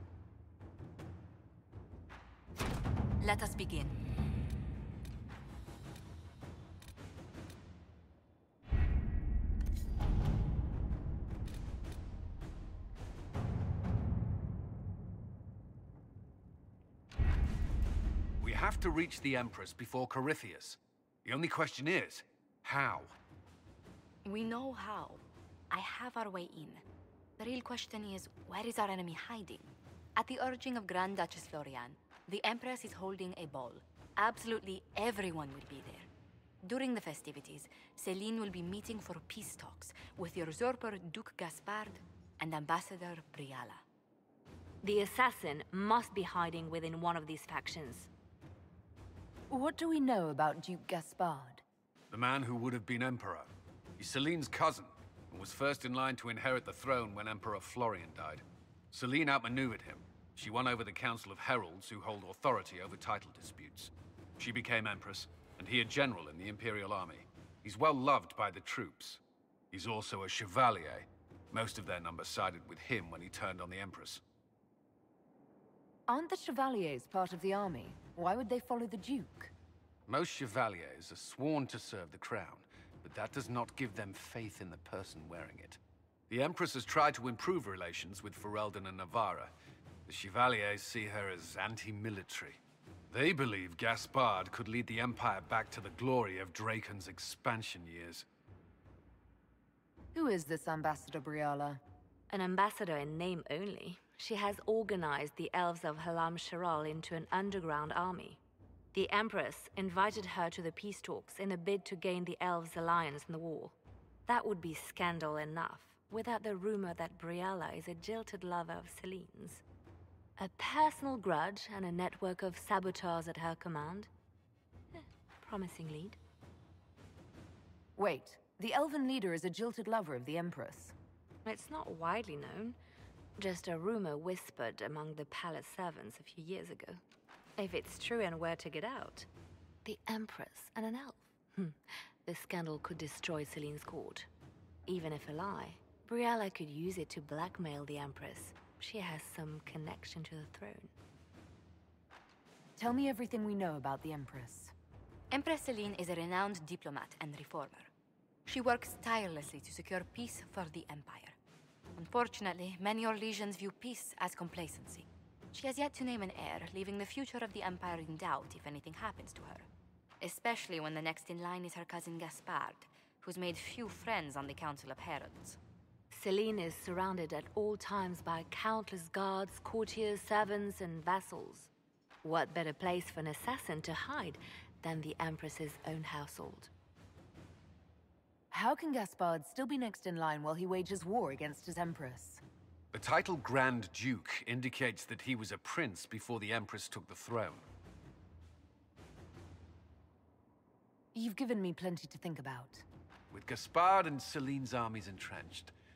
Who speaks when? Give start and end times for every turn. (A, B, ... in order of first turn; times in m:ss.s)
0:03.2-0:04.0 A
0:18.4-0:23.2 B
0:24.2-0:26.8 A
0:27.4-0:36.1 A
0:36.6-0:43.8 A
0:44.8-0:48.1 C
0:49.5-0:51.6 D
0:52.1-1:09.2 B
1:09.7-1:14.2 B
1:16.1-1:19.5 D
1:20.1-1:29.5 B
1:30.0-1:38.2 B
1:40.1-1:41.8 D
1:42.3-1:48.4 C
1:48.9-1:59.6 C
2:00.4-2:04.1 C
2:04.9-2:06.2 C
2:08.0-2:10.9 D
2:11.4-2:12.8 C
2:13.4-2:17.0 C
2:17.6-2:19.3 C
2:19.8-2:24.3 C
2:24.8-2:30.9 C
2:32.8-2:34.7 D
2:35.3-2:37.9 A
2:38.4-2:41.4 A
2:42.0-2:49.7 A
2:50.2-2:55.6 A
2:56.1-3:01.7 C
3:02.2-3:06.7 C
3:08.5-3:12.4 D
3:12.9-3:17.6 B
3:21.1-3:22.8 D
3:23.3-3:25.7 B